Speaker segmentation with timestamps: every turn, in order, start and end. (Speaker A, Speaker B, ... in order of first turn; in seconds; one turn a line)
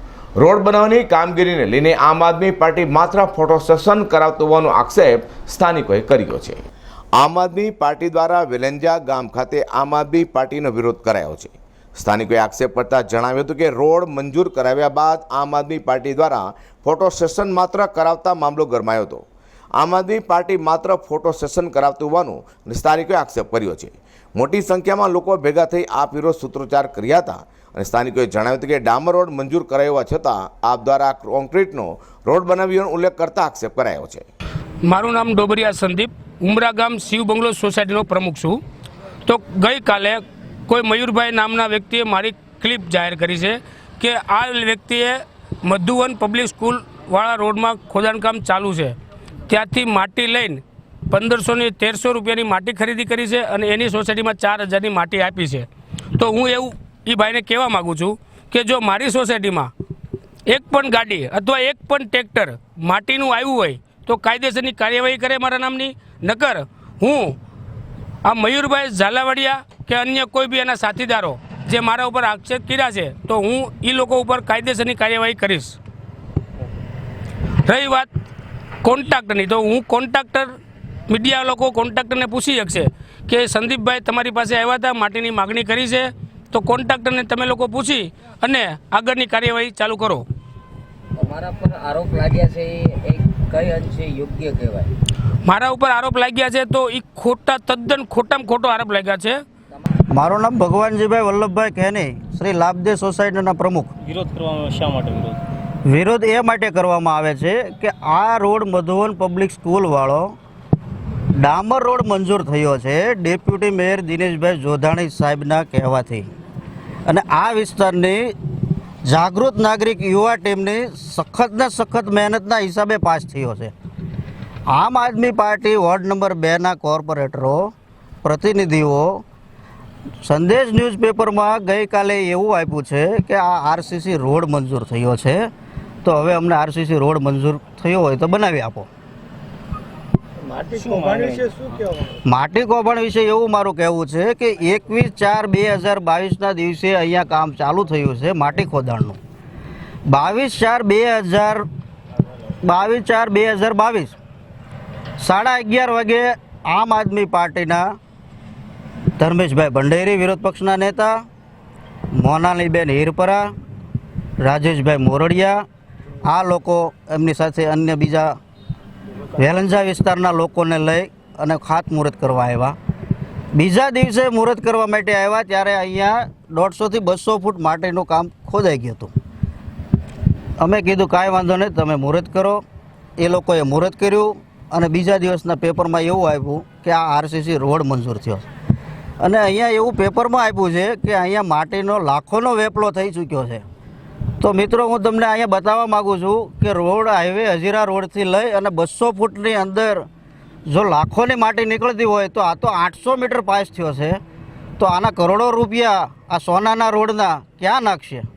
Speaker A: 0.4-6.6
Speaker A: 7.2-19.2
Speaker A: 19.8-34.3
Speaker B: 34.9-38.6
Speaker B: 39.2-49.0
Speaker B: 49.5-59.7
Speaker B: 60.5-67.3
Speaker B: 68.2-75.8
Speaker B: 77.7-78.1
Speaker B: 78.8-80.5
Speaker B: 81.1-90.2
Speaker C: 91.2-94.9
Speaker B: 95.5-99.4
Speaker D: 100.1-103.9
Speaker E: 104.0-105.4
Speaker D: 105.9-110.3
Speaker D: 111.4-116.3
Speaker D: 117.1-118.2
Speaker D: 119.1-123.7
Speaker D: 124.7-127.7
Speaker D: 128.2-129.2
Speaker D: 130.2-135.4
Speaker D: 136.0-138.9
Speaker E: 140.8-141.5
Speaker D: 142.3-149.2
Speaker D: 150.1-151.6
Speaker D: 152.6-154.2
Speaker D: 155.2-157.8
Speaker D: 159.2-161.2
Speaker D: 162.2-163.5
Speaker D: 164.4-165.6
Speaker D: 166.2-168.3
Speaker D: 169.3-172.8
Speaker D: 173.5-179.1
Speaker D: 180.6-182.6
Speaker D: 183.2-188.5
Speaker D: 189.2-193.6
Speaker D: 194.4-200.0
Speaker D: 200.7-204.2
Speaker D: 204.8-208.2